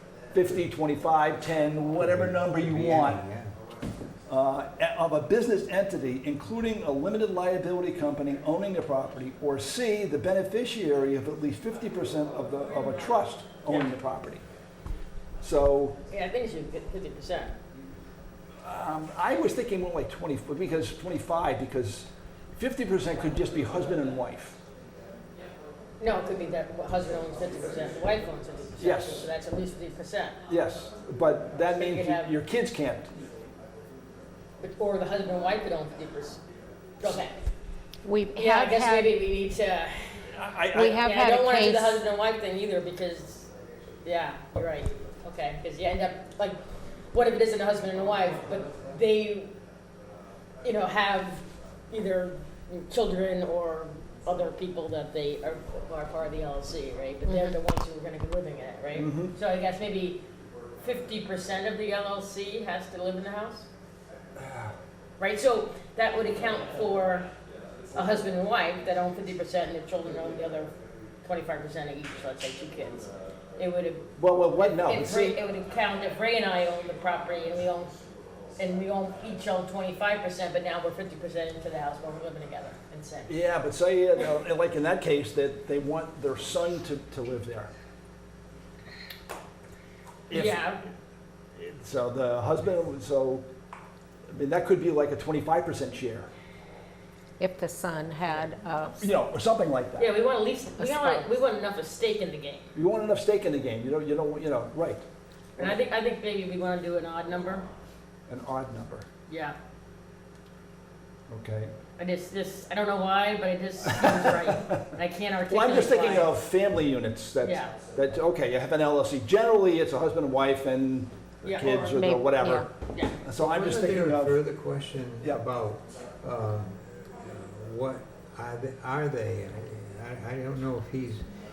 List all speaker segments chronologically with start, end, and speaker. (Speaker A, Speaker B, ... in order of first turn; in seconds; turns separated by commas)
Speaker A: 0.3-3.2, Speaker B: 2.0-3.5, Speaker A: 4.3-14.4, Speaker A: 15.4-15.9, Speaker C: 16.1-17.5, Speaker A: 18.6-24.6, Speaker C: 26.0-30.4, Speaker A: 28.8-29.3, Speaker A: 30.5-33.1, Speaker C: 31.7-32.3, Speaker C: 34.6-36.4, Speaker C: 37.0-37.4, Speaker D: 38.0-39.2, Speaker C: 38.3-40.2, Speaker A: 40.3-41.0, Speaker D: 40.7-42.0, Speaker C: 40.9-43.5, Speaker C: 44.0-46.6, Speaker C: 47.1-49.5, Speaker C: 50.6-60.2, Speaker A: 58.9-59.3, Speaker C: 60.8-63.7, Speaker A: 64.4-64.7, Speaker C: 65.2-67.3, Speaker C: 67.9-70.7, Speaker C: 71.2-77.9, Speaker A: 74.2-75.4, Speaker C: 78.6-83.3, Speaker A: 83.3-87.7, Speaker A: 90.3-90.6, Speaker C: 90.3-90.8, Speaker A: 91.5-93.4, Speaker A: 94.3-96.3, Speaker D: 97.4-99.0, Speaker A: 99.0-100.1, Speaker C: 100.0-102.7, Speaker D: 100.8-101.3, Speaker A: 102.7-105.0, Speaker C: 105.6-107.7, Speaker A: 108.3-109.1, Speaker C: 109.3-109.5, Speaker A: 111.3-111.7, Speaker C: 112.0-116.3, Speaker A: 114.0-114.8, Speaker A: 115.5-124.4, Speaker C: 117.4-117.8, Speaker C: 121.4-122.0, Speaker D: 121.6-122.7, Speaker C: 122.9-123.2, Speaker B: 123.4-131.2